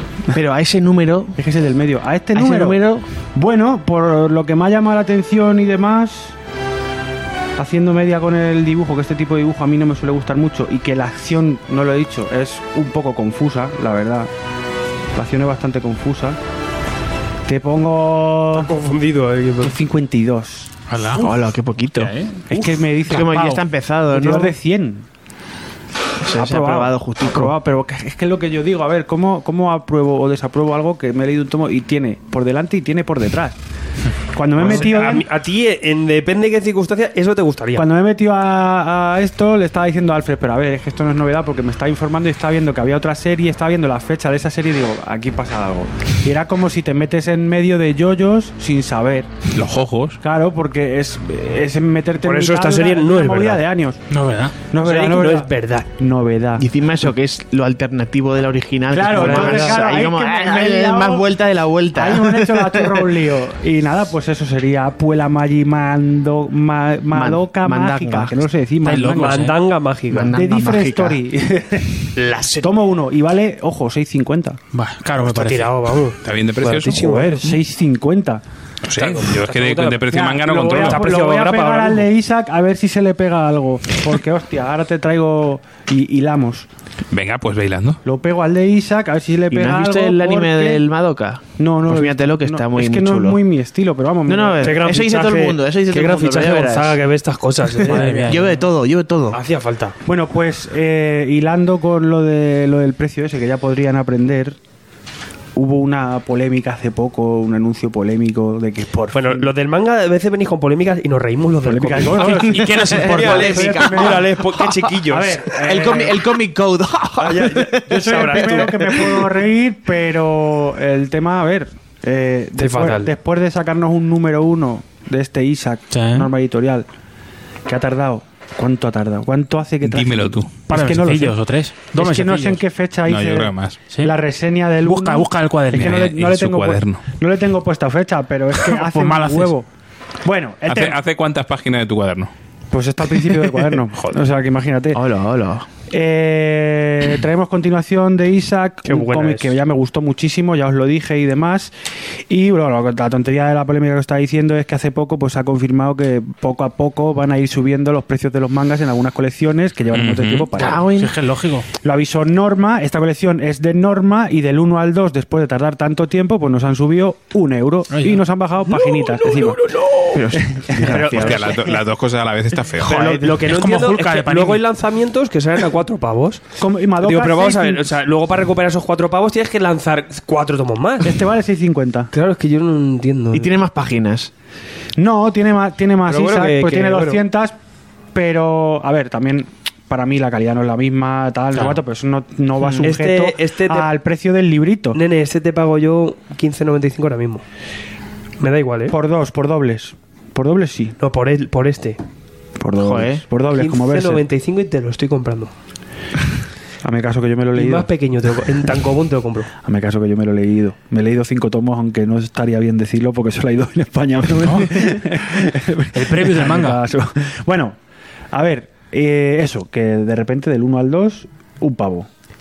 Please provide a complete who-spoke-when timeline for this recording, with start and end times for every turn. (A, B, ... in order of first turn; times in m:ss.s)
0:00.3-0:01.4 A
0:01.4-0:02.8 B
0:02.3-0:03.0 A
0:03.3-0:06.4 B
0:07.6-0:14.3 B
0:15.1-0:16.4 B
0:17.4-0:18.7 B
0:18.5-0:19.7 C
0:19.6-0:21.3 B
0:20.9-0:21.2 D
0:21.2-0:22.1 A
0:21.9-0:22.4 E
0:22.5-0:25.0 B
0:23.0-0:24.5 A
0:23.1-0:23.6 D
0:26.2-0:27.5 A
0:26.2-0:33.6 B
0:34.3-0:35.2 B
0:34.6-0:37.9 C
0:37.8-0:49.4 B
0:49.5-0:50.2 E
0:50.2-0:54.0 B
0:52.2-0:53.6 C
0:54.1-0:54.6 D
0:54.6-0:56.6 B
0:54.8-0:55.9 C
0:56.6-1:03.1 A
0:58.9-1:01.3 B
0:59.1-0:59.8 C
1:01.9-1:09.4 B
1:07.1-1:08.4 A
1:08.8-1:09.6 D
1:09.1-1:10.4 C
1:10.1-1:11.2 A
1:10.3-1:14.6 B
1:12.2-1:12.7 C
1:14.7-1:15.8 D
1:15.2-1:17.5 C
1:16.2-1:17.0 E
1:16.9-1:18.4 B
1:18.8-1:21.0 E
1:18.9-1:22.1 C
1:20.1-1:26.7 B
1:27.1-1:28.0 E
1:28.0-1:30.8 B
1:29.5-1:33.4 A
1:31.6-1:34.9 B
1:34.3-1:37.0 A
1:34.6-1:38.4 C
1:37.8-1:38.6 D
1:37.9-1:39.4 A
1:39.3-1:40.0 C
1:40.0-1:44.6 B
1:45.5-1:49.5 B
1:49.1-1:55.4 C
1:51.6-1:54.2 B
1:52.2-1:53.5 D
1:52.6-1:54.9 A
1:55.0-1:56.2 B
1:55.5-1:59.3 A
1:57.2-2:06.9 B
1:57.4-1:59.0 C
2:02.6-2:03.1 C
2:05.9-2:06.3 D
2:07.6-2:11.4 B
2:09.8-2:10.5 E
2:10.7-2:12.6 D
2:11.9-2:19.7 B
2:13.1-2:13.8 E
2:14.8-2:16.2 D
2:15.8-2:17.0 E
2:18.7-2:19.5 D
2:20.2-2:21.0 B
2:20.7-2:22.3 E
2:22.7-2:25.0 B
2:24.9-2:25.7 A
2:25.9-2:31.7 B
2:28.8-2:29.5 C
2:32.3-2:40.9 B
2:39.9-2:40.5 E
2:40.6-2:41.2 A
2:40.7-2:41.7 D
2:41.8-2:49.6 B
2:47.9-2:48.2 D
2:48.7-2:50.2 C
2:50.1-2:51.6 A
2:50.3-2:51.2 B
2:50.8-2:51.7 C
2:51.0-2:53.1 E
2:52.8-2:56.4 C
2:52.8-2:53.3 A
2:53.4-2:54.6 D
2:56.6-2:57.9 B
2:57.0-3:01.2 C
3:01.0-3:02.1 B
3:02.1-3:03.5 C
3:03.3-3:04.3 A
3:05.0-3:07.6 B
3:06.0-3:07.2 C
3:08.1-3:15.0 B
3:12.8-3:13.9 C
3:14.9-3:17.4 C
3:18.4-3:18.9 C
3:18.9-3:21.0 B
3:21.0-3:22.0 C
3:22.6-3:24.2 B
3:22.8-3:23.2 A
3:23.5-3:25.5 C
3:26.8-3:27.9 B
3:27.5-3:29.5 C
3:29.6-3:37.8 B
3:34.4-3:34.7 D
3:35.9-3:36.8 D
3:38.3-3:42.1 B